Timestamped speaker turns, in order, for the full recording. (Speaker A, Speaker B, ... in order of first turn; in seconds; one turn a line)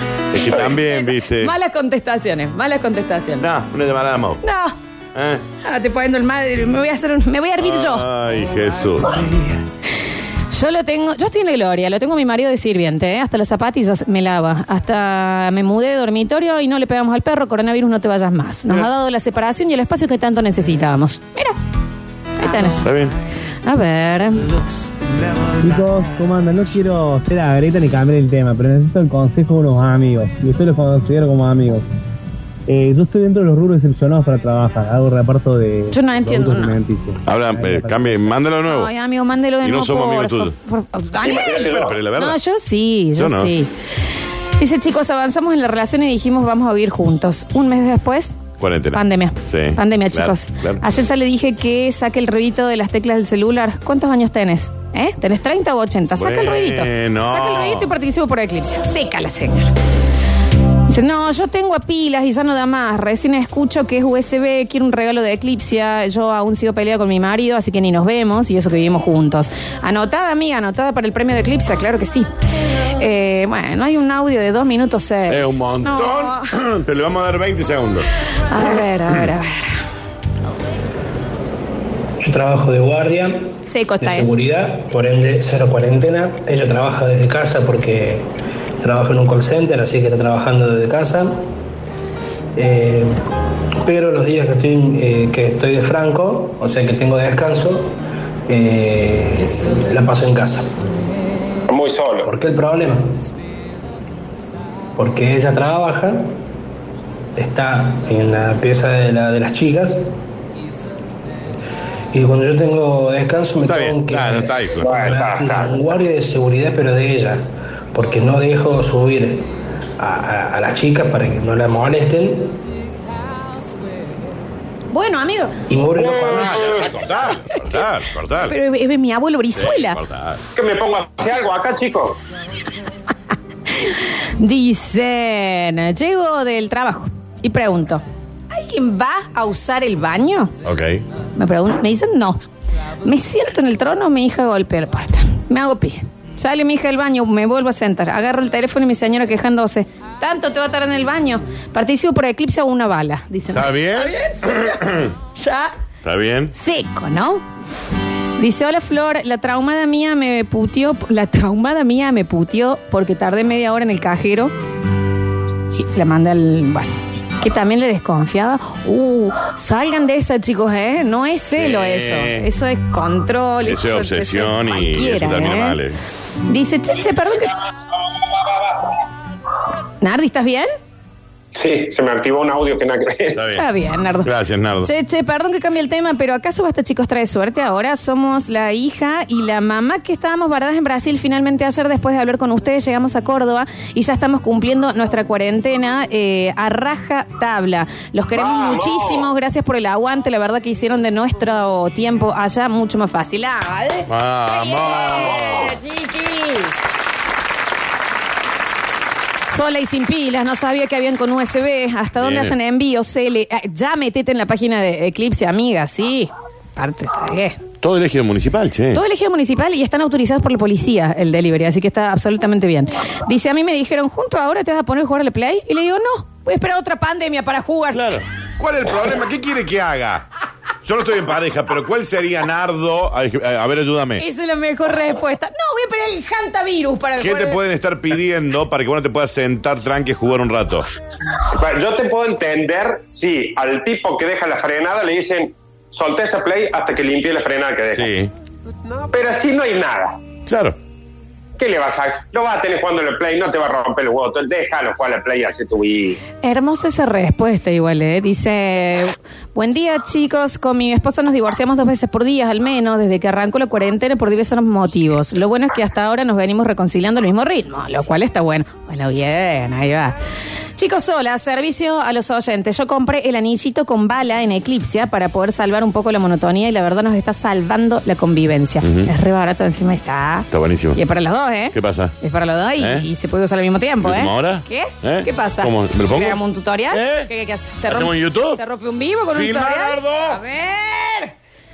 Speaker A: 0.3-1.5
Speaker B: 0.5-3.5
Speaker A: 3.4-4.4
Speaker B: 4.4-4.8
Speaker A: 5.2-5.4
Speaker B: 5.6-8.1
Speaker A: 7.6-9.3
Speaker B: 10.5-21.6
Speaker B: 22.4-22.9
Speaker A: 22.8-23.1
Speaker B: 23.6-24.5
Speaker C: 25.6-31.9
Speaker C: 32.7-38.3
Speaker B: 35.9-36.8
Speaker A: 37.2-38.9
Speaker B: 38.6-43.7
Speaker A: 39.6-40.5
Speaker D: 41.2-42.0
Speaker A: 41.7-42.4
Speaker A: 43.2-43.5
Speaker B: 44.6-48.4
Speaker A: 48.6-50.8
Speaker B: 48.9-59.7
Speaker A: 56.2-57.9
Speaker B: 60.9-72.3
Speaker B: 73.0-76.5
Speaker A: 75.3-78.1
Speaker B: 78.5-79.8
Speaker E: 82.2-88.3
Speaker B: 83.7-84.3
Speaker E: 88.8-91.4
Speaker E: 92.6-93.2
Speaker E: 93.8-97.9
Speaker E: 98.5-100.7
Speaker D: 101.7-102.3
Speaker E: 102.2-103.1
Speaker E: 105.0-106.3
Speaker E: 107.4-110.0
Speaker E: 112.1-119.5
Speaker A: 113.7-115.1
Speaker D: 114.8-115.8
Speaker E: 120.0-122.5
Speaker B: 124.9-125.6
Speaker E: 125.7-126.7
Speaker D: 126.0-126.9
Speaker A: 126.2-128.6
Speaker B: 127.5-127.8
Speaker B: 128.4-130.0
Speaker A: 129.6-130.4
Speaker D: 130.6-132.2
Speaker B: 133.7-140.5
Speaker A: 140.6-141.0
Speaker B: 141.4-142.4
Speaker B: 143.0-155.7
Speaker A: 153.5-155.1
Speaker A: 156.0-156.5
Speaker B: 156.5-157.4
Speaker B: 158.4-164.5
Speaker B: 165.8-175.8
Speaker A: 171.6-172.5
Speaker A: 173.7-176.0
Speaker B: 176.5-177.5
Speaker B: 180.0-180.7
Speaker D: 181.6-183.4
Speaker A: 183.3-183.7
Speaker B: 183.5-184.3
Speaker A: 184.2-184.9
Speaker B: 184.8-206.8
Speaker D: 198.3-199.3
Speaker A: 204.1-205.7
Speaker D: 205.1-205.7
Speaker B: 209.5-217.6
Speaker A: 212.2-212.6
Speaker A: 217.8-219.0
Speaker B: 218.9-228.2
Speaker A: 227.9-230.2
Speaker A: 230.8-234.2
Speaker B: 234.2-237.6
Speaker A: 237.2-240.9
Speaker D: 241.5-248.1
Speaker A: 247.9-248.3
Speaker D: 249.1-250.2
Speaker A: 250.5-250.8
Speaker D: 251.6-256.2
Speaker B: 256.4-270.2
Speaker B: 270.8-291.3
Speaker A: 278.8-279.1
Speaker A: 280.5-281.0
Speaker A: 281.7-282.1
Speaker A: 282.8-283.1
Speaker A: 284.0-286.4
Speaker A: 286.9-287.3
Speaker A: 287.9-288.6
Speaker A: 289.3-290.4